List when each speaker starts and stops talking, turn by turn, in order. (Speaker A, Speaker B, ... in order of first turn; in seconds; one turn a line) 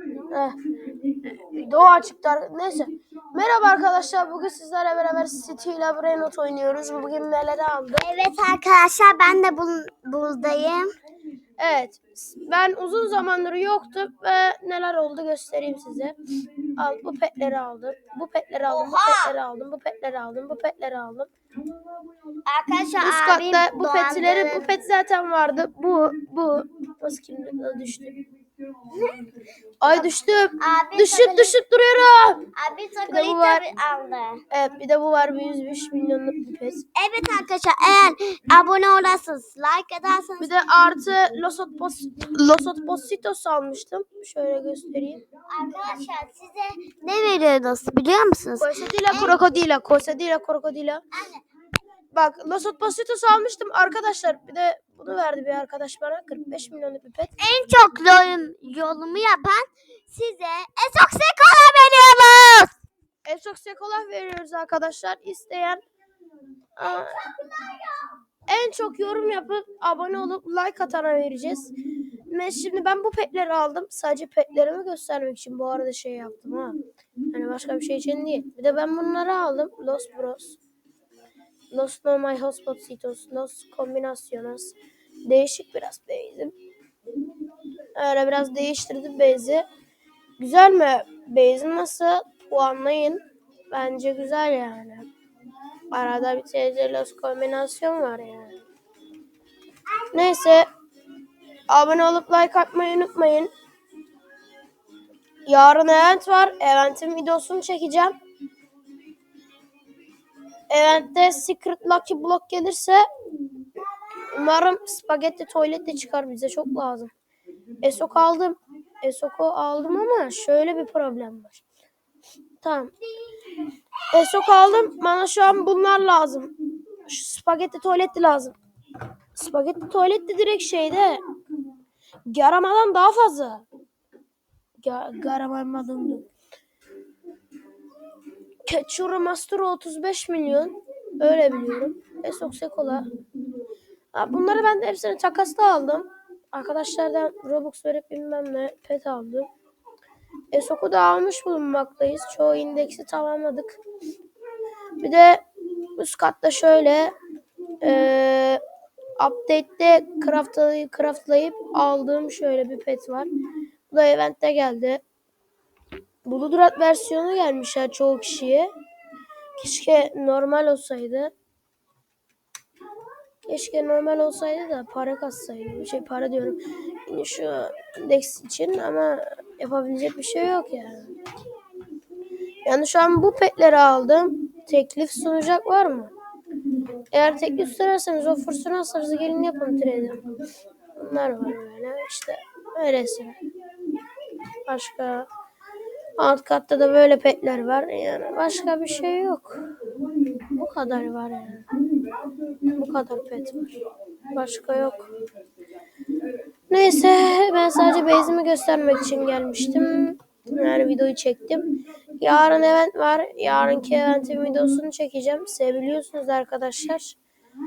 Speaker A: 1.4-8.1
Speaker B: 8.0-10.9
Speaker A: 11.6-16.2
Speaker A: 16.8-21.3
Speaker B: 18.7-19.4
Speaker B: 22.5-24.7
Speaker A: 23.0-28.1
Speaker A: 29.8-32.5
Speaker B: 30.6-31.6
Speaker B: 32.5-34.4
Speaker A: 33.1-33.6
Speaker A: 34.5-36.9
Speaker B: 37.0-40.5
Speaker A: 40.4-45.2
Speaker B: 45.5-49.4
Speaker A: 48.6-51.0
Speaker B: 51.1-51.4
Speaker A: 52.1-57.4
Speaker B: 57.4-62.7
Speaker A: 63.3-65.8
Speaker A: 66.8-67.2
Speaker A: 68.5-71.7
Speaker A: 72.3-76.8
Speaker A: 77.3-80.6
Speaker A: 81.7-84.8
Speaker A: 85.3-86.5
Speaker A: 88.0-89.7
Speaker A: 90.4-93.2
Speaker A: 93.7-95.1
Speaker A: 95.9-98.6
Speaker A: 100.1-100.7
Speaker A: 101.7-103.5
Speaker A: 105.5-108.1
Speaker A: 110.7-113.0
Speaker A: 114.3-117.1
Speaker A: 117.8-121.6
Speaker A: 122.6-122.9
Speaker A: 124.1-126.5
Speaker A: 127.1-128.6
Speaker A: 129.4-131.2
Speaker A: 132.3-133.7
Speaker A: 134.8-136.3
Speaker A: 138.7-143.1
Speaker A: 144.1-149.5
Speaker A: 150.5-153.8
Speaker A: 155.0-155.4
Speaker A: 156.0-157.2
Speaker A: 157.8-158.6
Speaker A: 159.2-163.3
Speaker A: 163.9-165.0
Speaker A: 166.2-168.7
Speaker A: 169.6-171.3
Speaker A: 173.5-181.1
Speaker A: 182.7-186.1
Speaker A: 187.1-190.2
Speaker A: 191.0-193.4
Speaker A: 194.7-195.3
Speaker A: 196.2-199.6
Speaker A: 200.6-201.7
Speaker A: 202.8-203.7
Speaker A: 204.3-205.0
Speaker A: 206.7-211.6
Speaker A: 212.2-217.2